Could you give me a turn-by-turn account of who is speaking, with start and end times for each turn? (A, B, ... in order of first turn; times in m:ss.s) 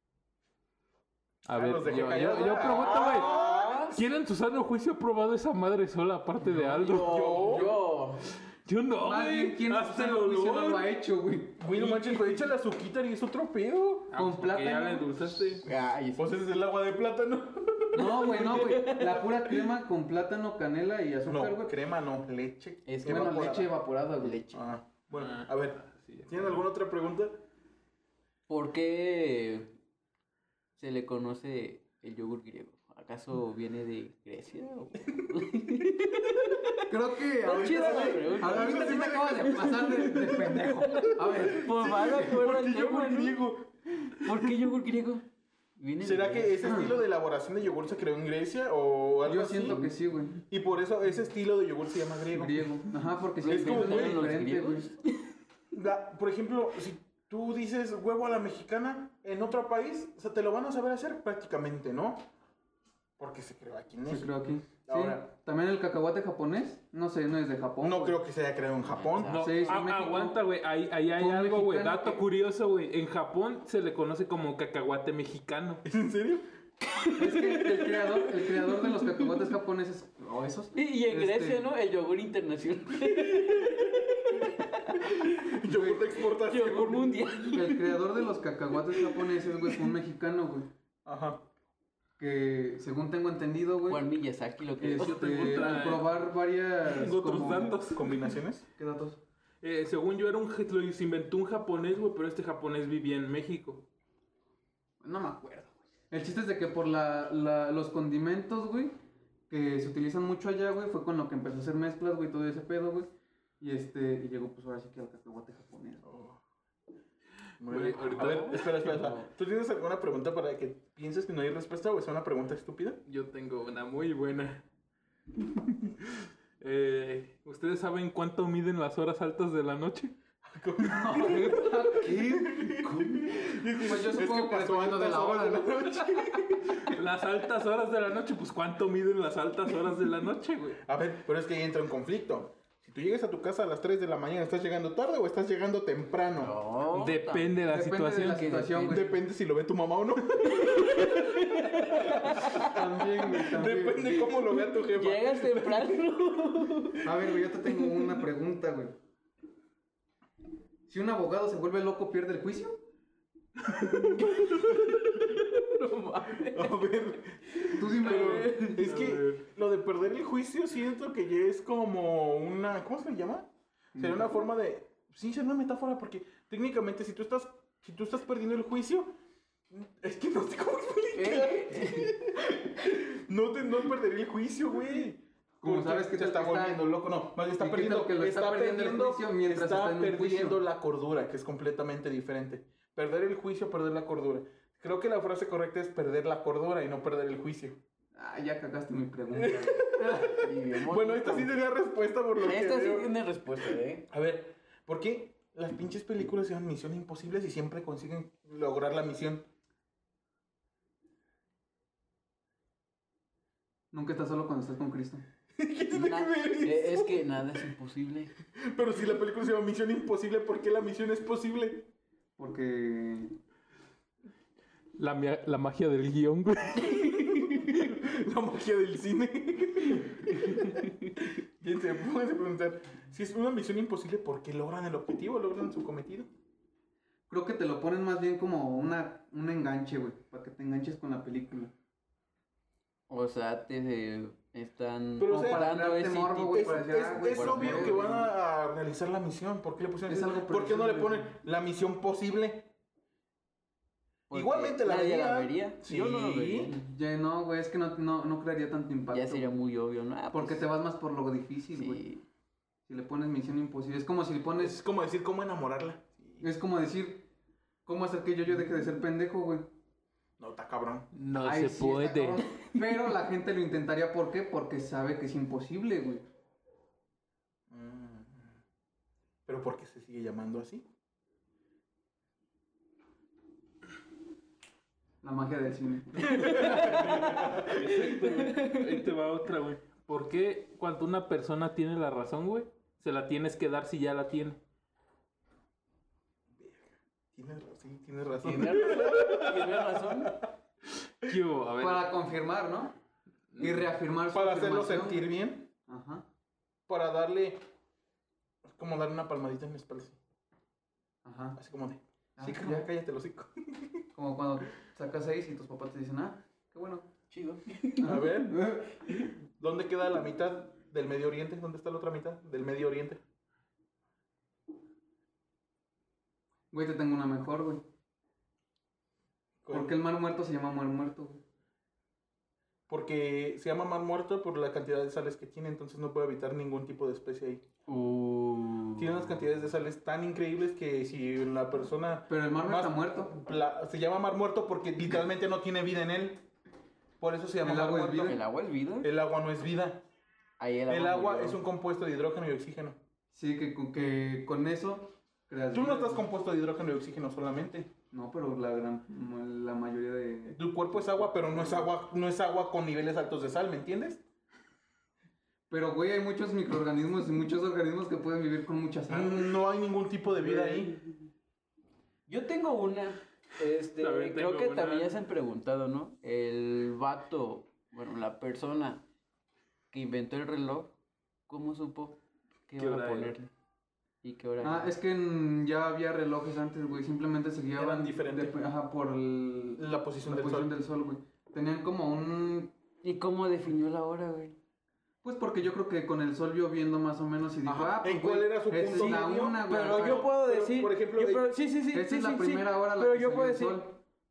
0:01.4-0:10.9 A
0:01.5-0:04.0 B
0:02.6-0:04.0 C
0:06.4-0:08.2 C
0:06.9-0:07.7 B
0:09.0-0:12.4 D
0:11.6-0:14.1 B
0:14.1-0:15.7 A
0:14.2-0:15.1 D
0:15.6-0:16.3 C
0:16.2-0:18.8 B
0:17.9-0:19.5 C
0:17.9-0:21.7 D
0:21.2-0:23.7 B
0:22.8-0:24.7 C
0:23.0-0:24.4 D
0:24.5-0:27.4 B
0:25.1-0:26.7 A
0:28.5-0:29.7 C
0:30.8-0:36.8 C
0:36.9-0:42.2 D
0:37.4-0:43.4 C
0:37.4-0:44.5 B
0:44.2-0:45.2 C
0:45.8-0:46.9 C
0:46.0-0:49.8 B
0:46.6-0:46.9 D
0:49.2-0:50.4 D
0:50.5-0:52.8 B
0:52.3-0:54.9 D
0:53.4-0:55.0 C
0:53.4-0:54.4 B
0:55.7-1:02.3 B
1:03.2-1:04.3 B
1:04.1-1:08.2 D
1:04.8-1:05.3 B
1:07.8-1:09.4 B
1:08.8-1:09.8 C
1:09.3-1:15.8 A
1:09.4-1:10.4 D
1:11.2-1:12.2 D
1:15.8-1:16.5 B
1:17.0-1:19.4 C
1:17.2-1:21.7 D
1:20.7-1:25.6 C
1:23.2-1:23.8 B
1:25.0-1:27.2 B
1:25.6-1:26.0 D
1:26.2-1:28.1 C
1:27.5-1:30.7 D
1:28.8-1:29.9 C
1:31.0-1:31.4 B
1:32.2-1:34.1 D
1:33.9-1:35.9 C
1:34.8-1:37.8 D
1:35.0-1:36.2 A
1:36.8-1:38.1 A
1:37.7-1:38.6 B
1:38.8-1:39.2 D
1:39.6-1:43.8 A
1:45.0-1:48.9 D
1:49.5-1:53.1 D
1:53.6-1:56.0 D
1:56.0-1:56.4 B
1:57.6-2:03.0 B
1:57.6-1:59.1 A
1:58.1-1:59.2 C
2:03.0-2:04.6 A
2:06.1-2:10.1 A
2:10.4-2:16.9 B
2:10.8-2:16.0 D
2:16.8-2:20.8 A
2:20.8-2:26.5 B
2:26.4-2:27.6 C
2:26.9-2:28.5 A
2:27.6-2:29.2 D
2:28.2-2:29.0 C
2:28.8-2:36.1 B
2:30.5-2:32.8 C
2:32.5-2:34.2 D
2:34.3-2:38.1 C
2:37.0-2:38.9 D
2:40.9-2:42.8 D
2:43.9-2:45.4 B
2:44.0-2:46.9 C
2:46.3-2:59.1 B
2:47.5-2:48.8 C
2:47.7-2:48.5 D
2:48.6-2:49.4 A
2:53.9-2:54.3 D
2:59.7-3:17.8 B
3:01.1-3:02.1 C
3:05.6-3:06.8 D
3:07.6-3:10.6 D
3:18.1-3:20.4 D
3:19.3-3:29.4 B
3:20.2-3:21.6 C
3:22.4-3:24.0 C
3:33.9-3:35.2 D
3:35.6-3:37.2 B
3:35.9-3:38.3 C
3:38.6-3:41.9 B
3:42.4-3:43.3 D
3:45.0-3:47.7 A
3:46.8-3:56.3 B
3:57.3-4:01.7 D
4:03.1-4:08.1 C
4:05.2-4:05.7 B
4:05.3-4:08.3 D
4:06.5-4:12.7 B
4:10.1-4:11.3 D
4:14.3-4:16.8 C
4:14.3-4:16.7 B
4:16.7-4:19.5 D
4:19.1-4:20.6 C
4:20.3-4:22.0 D
4:21.7-4:22.2 C
4:22.9-4:24.8 D
4:24.6-4:26.4 B
4:26.4-4:27.3 D
4:27.8-4:29.7 D
4:30.4-4:31.1 B
4:31.1-4:32.4 A
4:31.4-4:36.2 D
4:37.7-4:38.5 B
4:39.4-4:40.8 B
4:45.2-4:47.2 D
4:46.2-4:49.0 C
4:46.4-4:54.6 A
4:46.5-4:47.6 B
4:56.6-5:00.5 B
4:58.4-5:00.4 C
5:01.2-5:02.1 A
5:01.8-5:02.9 D
5:03.5-5:03.9 A
5:03.6-5:05.2 D
5:04.3-5:05.7 B
5:05.9-5:06.2 D
5:06.9-5:07.6 B
5:08.6-5:10.2 B
5:11.2-5:11.6 D
5:11.6-5:14.0 B
5:12.4-5:12.9 D
5:14.1-5:17.1 D
5:17.3-5:18.2 C
5:18.0-5:19.0 D
5:18.0-5:18.7 B
5:19.6-5:23.2 B
5:26.7-5:27.8 D
5:29.6-5:29.9 B
5:29.7-5:31.4 D
5:32.9-5:37.6 B
5:37.9-5:39.2 C
5:39.0-5:46.4 B
5:42.3-5:43.3 D
5:47.2-5:48.4 B
5:47.6-5:48.4 D
5:48.2-5:49.1 C
5:49.0-5:50.0 B
5:50.6-5:51.6 C
5:50.9-5:53.0 B
5:53.3-5:56.2 D
5:55.7-5:57.9 B
5:58.1-6:00.6 D
6:00.5-6:04.2 B
6:01.3-6:01.6 D
6:05.7-6:09.6 D
6:09.1-6:11.0 B
6:10.5-6:10.9 C
6:12.3-6:19.0 C
6:14.0-6:15.1 A
6:19.9-6:20.9 C
6:21.5-6:23.5 C
6:22.8-6:23.3 A
6:24.2-6:24.9 C
6:24.6-6:32.7 D
6:27.8-6:28.6 B
6:29.8-6:30.7 B
6:33.0-6:34.6 C
6:35.2-6:40.3 D
6:37.6-6:41.4 B
6:38.9-6:44.0 C
6:41.9-6:43.9 D